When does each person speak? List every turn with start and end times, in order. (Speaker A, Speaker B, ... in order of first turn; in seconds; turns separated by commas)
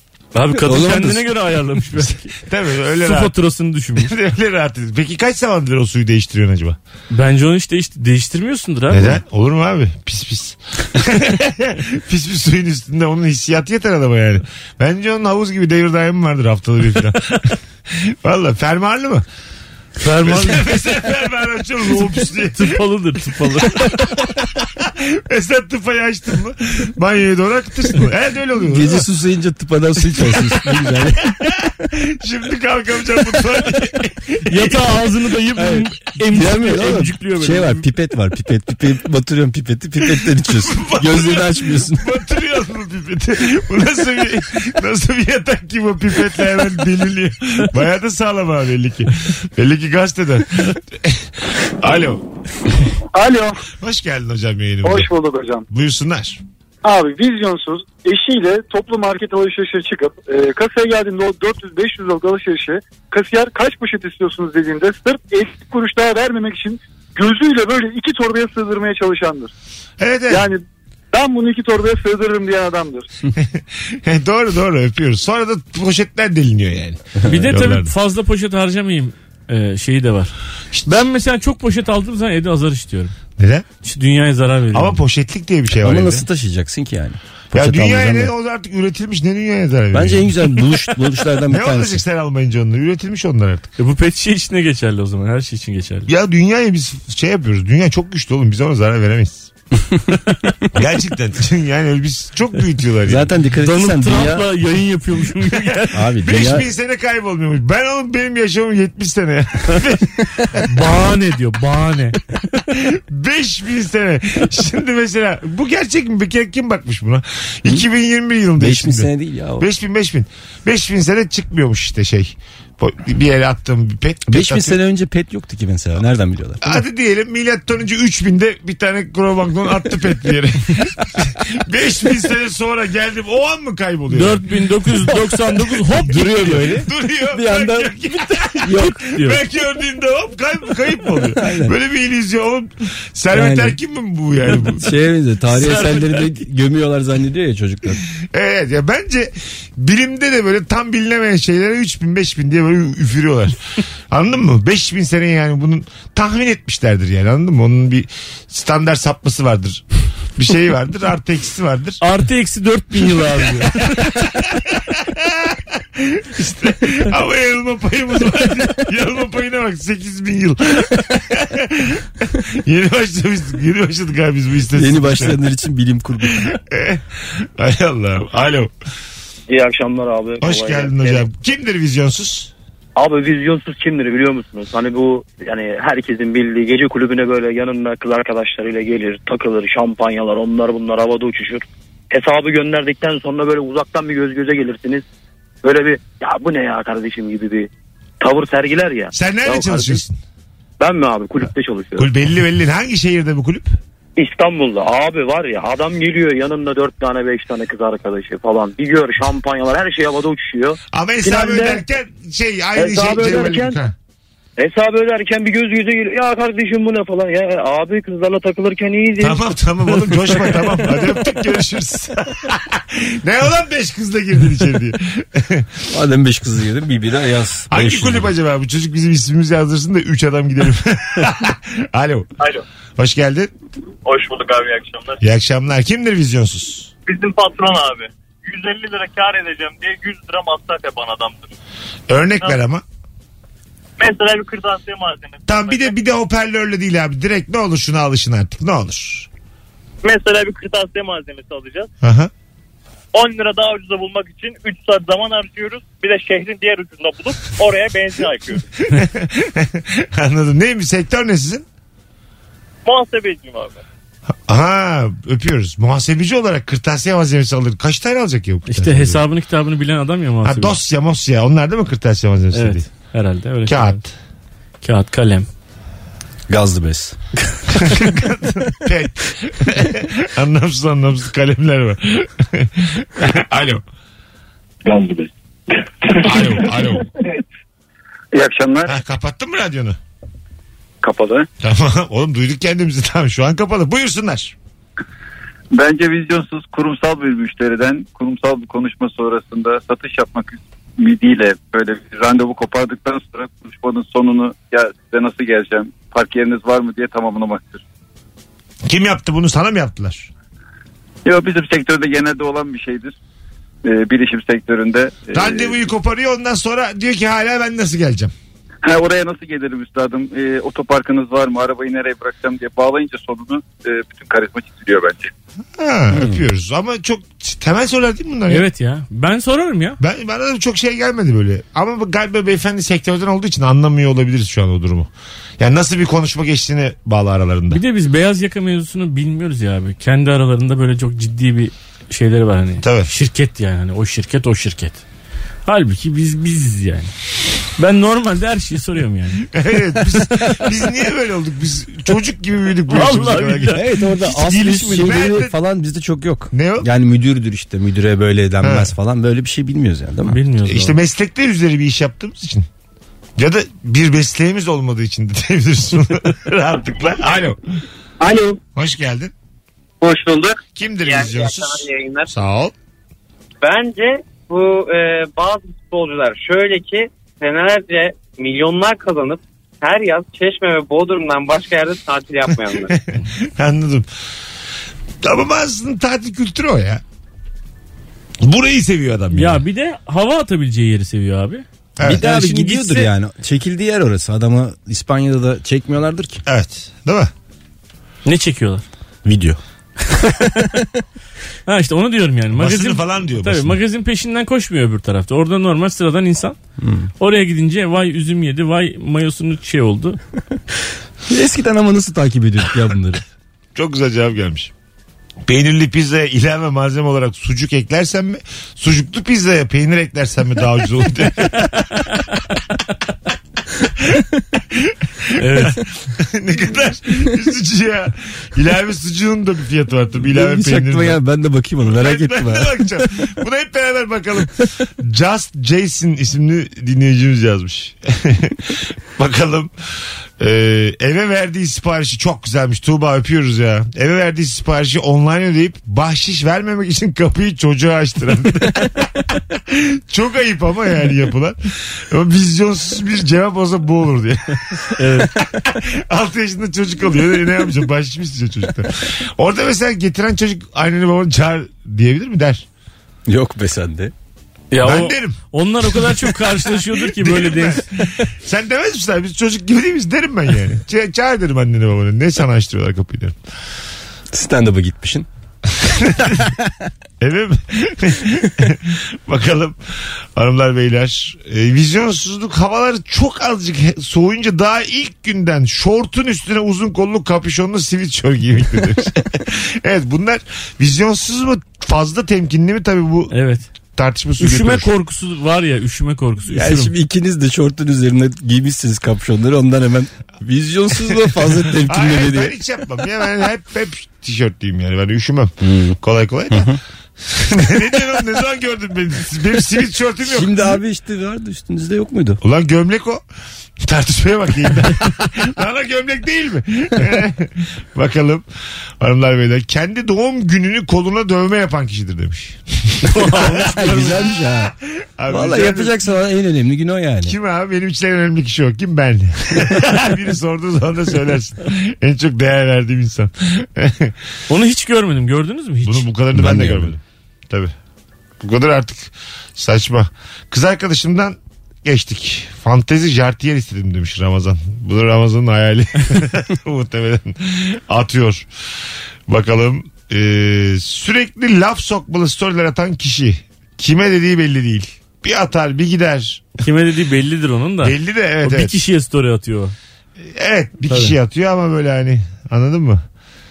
Speaker A: 0.3-2.4, Speaker B: 0.5-1.3, Speaker C: 2.4-3.3, Speaker A: 3.0-4.1, Speaker C: 4.0-6.8, Speaker A: 7.1-9.2, Speaker C: 8.9-19.2, Speaker A: 20.0-20.8, Speaker C: 20.2-22.7, Speaker A: 22.5-24.2, Speaker C: 24.8-29.0, Speaker B: 28.6-31.3, Speaker C: 31.4-34.8, Speaker A: 34.5-37.9, Speaker B: 35.6-42.1, Speaker C: 40.6-51.3, Speaker C: 51.8-52.2, Speaker D: 53.1-53.6, Speaker C: 53.8-55.1, Speaker D: 54.8-55.6, Speaker C: 55.7-56.4, Speaker D: 56.8-69.5, Speaker C: 70.0-70.5, Speaker D: 70.3-73.1, Speaker C: 73.4-77.9, Speaker A: 77.3-80.3, Speaker A: 80.8-83.1, Speaker C: 83.4-83.6, Speaker A: 83.8-85.0, Speaker C: 84.7-86.2, Speaker B: 85.7-88.3, Speaker C: 87.5-90.6, Speaker B: 89.9-92.0, Speaker C: 91.5-93.7, Speaker A: 93.8-96.1, Speaker C: 96.1-99.5, Speaker C: 100.7-103.3, Speaker B: 103.0-104.5, Speaker A: 103.6-106.1, Speaker B: 105.9-106.7, Speaker C: 106.2-110.2, Speaker A: 110.7-112.2, Speaker C: 112.7-124.8, Speaker B: 118.6-119.7, Speaker B: 124.3-126.8, Speaker C: 126.6-134.4, Speaker A: 134.1-136.8, Speaker B: 136.0-137.9, Speaker C: 136.7-144.9, Speaker B: 138.6-138.9, Speaker A: 138.8-139.4, Speaker B: 141.3-141.7, Speaker B: 143.3-143.8, Speaker B: 144.5-148.0, Speaker A: 145.5-146.3, Speaker C: 148.3-153.6, Speaker C: 154.1-159.8, Speaker C: 160.3-162.0, Speaker A: 162.0-164.1, Speaker C: 164.2-175.4, Speaker B: 174.7-176.4, Speaker C: 176.2-178.7, Speaker E: 179.5-181.3, Speaker C: 180.4-182.5, Speaker E: 182.9-195.0, Speaker E: 195.6-197.7, Speaker E: 198.2-200.0, Speaker C: 199.1-200.2, Speaker E: 200.8-202.1, Speaker C: 202.0-203.7, Speaker E: 204.2-211.8, Speaker C: 210.9-213.9, Speaker E: 212.7-213.8, Speaker E: 214.6-219.5, Speaker C: 219.2-225.7, Speaker B: 225.9-228.3, Speaker C: 227.7-232.3, Speaker C: 233.0-233.5, Speaker C: 235.2-236.9, Speaker F: 237.1-237.9, Speaker F: 238.6-239.0, Speaker F: 239.6-240.3, Speaker C: 242.1-242.8, Speaker F: 244.2-245.1, Speaker C: 245.4-249.3, Speaker F: 250.7-251.8, Speaker C: 252.0-252.3, Speaker F: 253.2-254.4, Speaker F: 255.3-256.5, Speaker F: 257.1-258.5, Speaker C: 258.9-261.6, Speaker F: 263.0-263.7, Speaker C: 264.5-269.2, Speaker A: 268.7-270.8, Speaker C: 270.4-272.9, Speaker A: 272.5-274.0, Speaker C: 273.7-274.1, Speaker A: 274.8-275.5, Speaker B: 276.5-277.2, Speaker C: 277.8-283.8, Speaker C: 286.2-287.1, Speaker C: 288.8-290.0, Speaker C: 291.6-294.5, Speaker G: 295.8-300.5, Speaker G: 301.1-307.8, Speaker C: 308.9-310.3, Speaker G: 311.3-313.1, Speaker G: 313.9-315.4, Speaker C: 315.3-318.3, Speaker G: 318.9-325.3, Speaker C: 325.8-328.6, Speaker B: 326.1-326.4, Speaker A: 328.5-330.0, Speaker C: 330.0-337.8, Speaker A: 337.7-345.0, Speaker C: 342.8-343.1, Speaker A: 345.6-347.1, Speaker A: 347.8-349.4, Speaker C: 349.5-355.5, Speaker A: 352.9-353.9, Speaker B: 353.7-360.4, Speaker C: 356.5-356.9, Speaker C: 358.6-358.9, Speaker A: 360.3-361.0, Speaker C: 360.6-362.7, Speaker C: 363.4-367.6, Speaker C: 368.8-369.3, Speaker C: 370.8-372.7, Speaker H: 373.7-382.7, Speaker C: 382.5-384.1, Speaker C: 385.2-387.0, Speaker C: 388.4-389.6, Speaker A: 389.3-393.1, Speaker C: 392.0-392.2, Speaker B: 392.0-396.4, Speaker C: 396.4-397.3, Speaker A: 398.2-398.8, Speaker B: 399.2-399.6, Speaker A: 400.4-400.6, Speaker A: 401.7-406.6, Speaker C: 402.5-403.8, Speaker B: 406.8-407.1, Speaker A: 407.2-410.2, Speaker B: 411.3-413.2, Speaker C: 413.7-414.7, Speaker C: 415.5-421.8, Speaker C: 424.7-431.2, Speaker A: 425.4-425.8, Speaker B: 430.2-433.1, Speaker C: 431.9-439.7, Speaker C: 440.4-462.6, Speaker A: 454.9-455.3, Speaker B: 463.3-464.1, Speaker A: 464.7-467.9, Speaker C: 464.8-465.4, Speaker C: 467.1-467.8, Speaker C: 468.4-473.4, Speaker B: 474.3-475.3, Speaker C: 475.8-476.4, Speaker C: 477.2-493.3, Speaker A: 493.3-493.6, Speaker C: 493.9-494.9, Speaker A: 494.4-496.9, Speaker B: 496.5-502.5, Speaker C: 501.8-510.7, Speaker B: 505.6-506.0, Speaker B: 506.5-506.8, Speaker B: 510.2-512.4, Speaker C: 512.4-513.2, Speaker C: 513.8-518.5, Speaker C: 519.0-523.9, Speaker A: 523.1-524.2, Speaker B: 523.5-524.7, Speaker C: 524.7-525.9, Speaker B: 525.3-527.3, Speaker C: 527.2-534.1, Speaker A: 534.5-536.1, Speaker C: 535.8-537.7, Speaker B: 536.3-537.0, Speaker C: 538.4-548.5, Speaker C: 549.3-556.5, Speaker A: 556.6-559.7, Speaker C: 557.8-558.7, Speaker C: 560.3-563.0, Speaker A: 560.9-561.1